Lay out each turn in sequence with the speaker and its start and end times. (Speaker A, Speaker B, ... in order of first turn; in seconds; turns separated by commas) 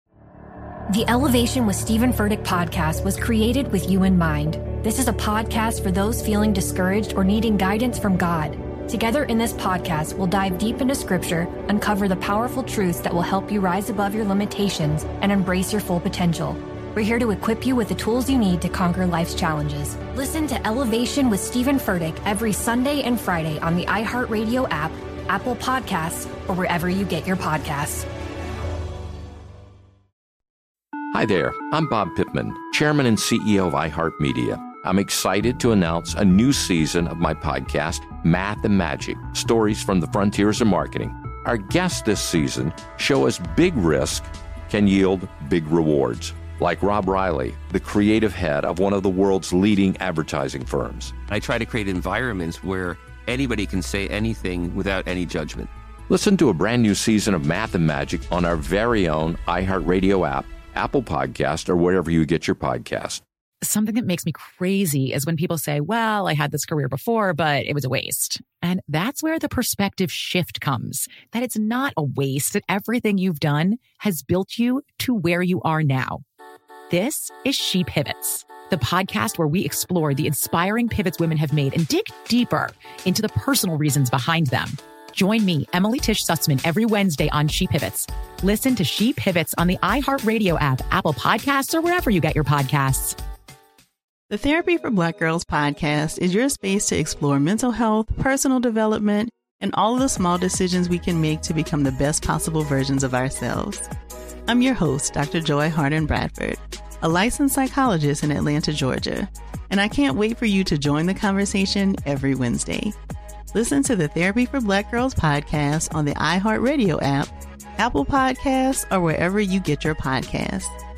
Speaker A: 0.9-28.1, Speaker B: 31.1-51.1, Speaker C: 51.3-55.7, Speaker B: 56.1-63.2, Speaker D: 63.6-76.2, Speaker D: 76.9-93.2, Speaker E: 94.4-103.8, Speaker E: 104.7-106.5, Speaker E: 107.3-109.3, Speaker E: 110.0-112.9, Speaker E: 113.7-117.2, Speaker E: 117.9-120.7